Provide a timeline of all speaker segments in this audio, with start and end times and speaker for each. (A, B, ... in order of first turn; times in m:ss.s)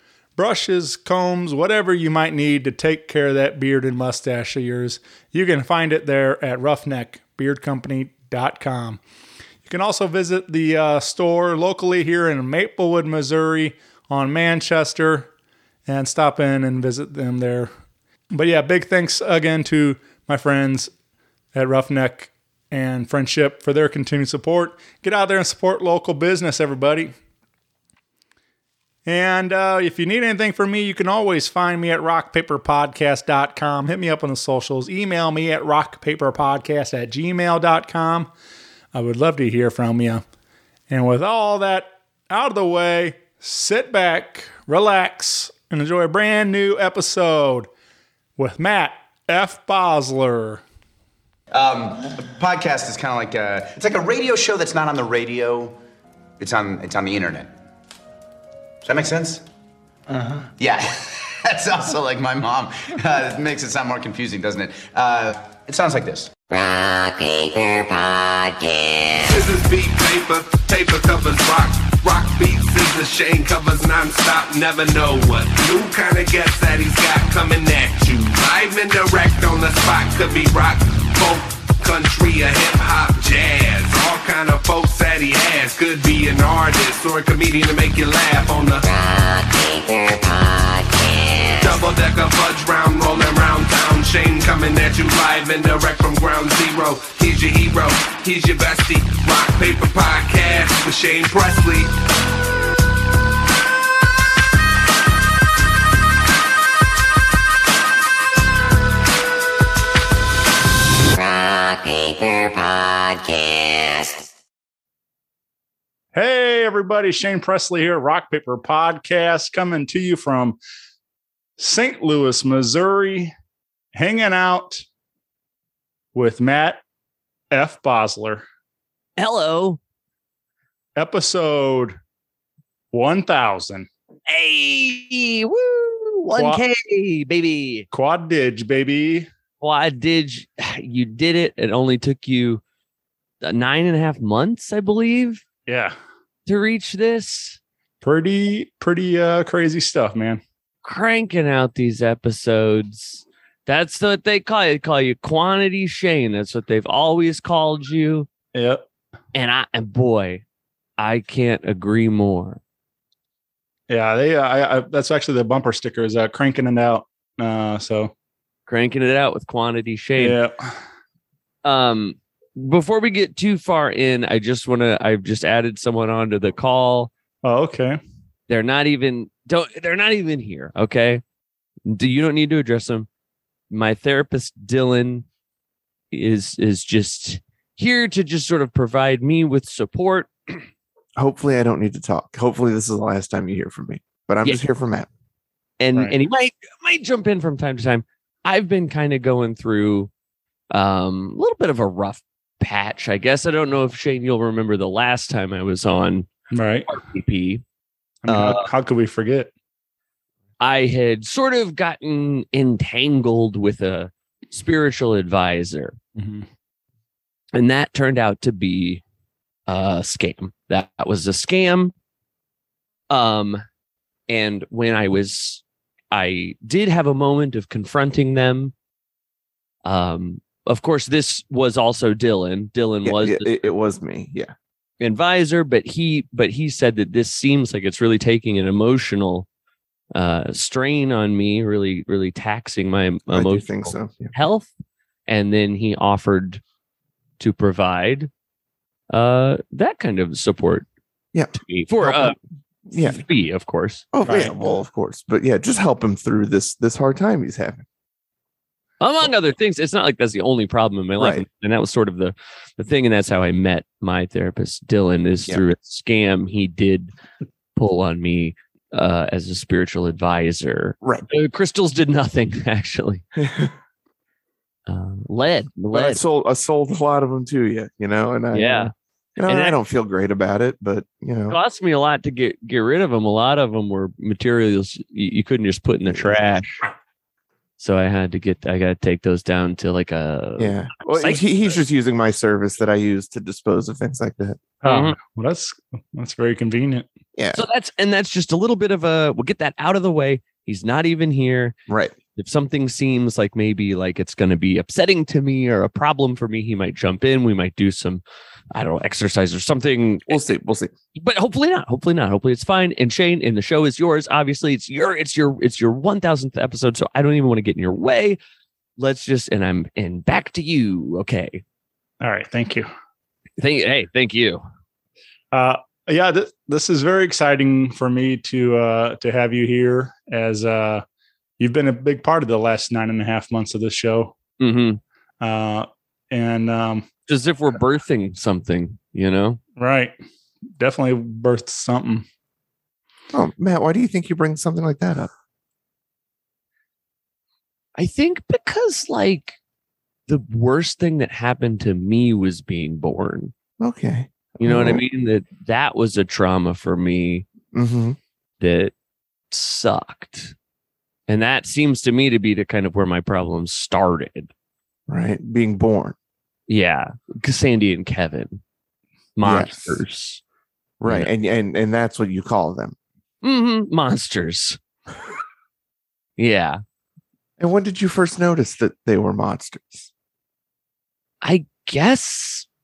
0:00.4-0:09.0 A
0:09.6-0:15.3 A
0:15.8-0:17.7 A
0:18.3-0:20.9 A
0:21.5-0:27.1 A
0:29.0-0:38.3 A
0:38.9-0:40.2 A
0:40.9-0:47.7 A
0:48.4-0:50.6 A
0:51.5-0:55.8 B
0:56.4-0:57.5 B
0:58.8-0:59.4 B
1:00.1-1:00.4 A
1:00.6-1:06.3 B
1:06.5-1:09.4 C
1:09.2-1:28.8 D
1:28.9-1:31.8 C
1:31.6-1:41.9 D
1:51.1-1:54.3 C
1:56.1-2:00.6 A
2:01.6-2:03.3 A
2:03.9-2:04.8 A
2:06.1-2:06.8 A
2:07.5-2:08.4 A
2:09.2-2:09.8 E
2:11.0-2:12.0 A
2:12.9-2:13.9 A
2:14.3-2:17.9 E
2:16.3-2:16.6 A
2:17.9-2:19.3 A
2:19.6-2:22.6 E
2:23.4-2:25.4 E
2:25.7-2:25.9 A
2:26.4-2:27.6 E
2:28.0-2:30.4 A
2:30.8-2:38.3 E
2:38.5-2:38.8 A
2:39.3-2:40.4 E
2:41.0-2:42.6 E
2:43.9-2:48.1 A
2:48.7-2:50.4 E
2:50.2-2:50.5 A
2:51.6-2:57.1 E
2:57.4-2:58.0 A
2:58.5-3:01.2 E
3:01.8-3:03.1 E
3:03.7-3:05.2 E
3:06.1-3:10.6 E
3:11.2-3:15.1 F
3:15.8-3:20.1 E
3:20.7-3:26.3 E
3:26.5-3:26.9 A
3:26.9-3:27.6 E
3:28.2-3:29.5 A
3:28.3-3:28.7 E
3:30.6-3:36.0 E
3:36.2-3:36.4 A
3:37.5-3:39.0 E
3:39.7-3:41.9 E
3:43.1-3:43.6 E
3:44.3-3:48.7 E
3:49.8-3:53.7 E
3:53.0-3:54.5 F
3:55.0-3:59.5 E
4:00.1-4:04.7 E
4:03.3-4:04.3 F
4:05.3-4:06.6 E
4:07.4-4:08.3 E
4:09.1-4:10.8 E
4:11.3-4:12.3 F
4:11.6-4:12.4 E
4:12.9-4:13.2 F
4:12.9-4:14.1 E
4:14.1-4:17.8 F
4:14.2-4:14.5 A
4:19.0-4:27.1 E
4:21.2-4:21.4 F
4:27.8-4:33.2 E
4:31.0-4:31.3 F
4:33.4-4:33.7 F
4:34.9-4:36.2 E
4:35.9-4:41.6 F
4:38.5-4:38.9 E
4:39.4-4:39.8 E
4:41.5-4:46.8 E
4:47.8-4:51.8 E
4:50.6-4:54.6 F
4:54.8-4:57.1 A
4:54.8-4:55.2 E
4:57.3-4:57.6 F
4:57.5-5:01.8 E
5:01.9-5:02.1 F
5:02.4-5:10.4 E
5:10.3-5:10.9 F
5:11.2-5:18.4 E
5:19.0-5:21.6 E
5:22.2-5:22.9 A
5:23.6-5:24.6 E
5:25.5-5:31.0 A
5:31.6-5:34.3 A
5:34.6-5:35.0 E
5:35.4-5:37.0 A
5:37.3-5:39.6 E
5:39.8-5:40.1 A
5:40.8-5:42.2 A
5:43.3-5:45.3 F
5:48.0-5:49.6 E
5:50.3-5:53.5 E
5:53.8-5:55.0 F
5:54.6-5:57.4 E
5:57.7-5:58.2 F
5:58.6-5:58.9 E
5:59.5-6:00.5 E
6:01.3-6:04.5 E
6:05.1-6:06.2 F
6:06.7-6:08.6 E
6:09.4-6:10.4 E
6:09.4-6:10.0 F
6:11.0-6:13.0 F
6:13.4-6:14.8 E
6:16.4-6:16.8 E
6:17.6-6:20.1 F
6:21.4-6:22.7 E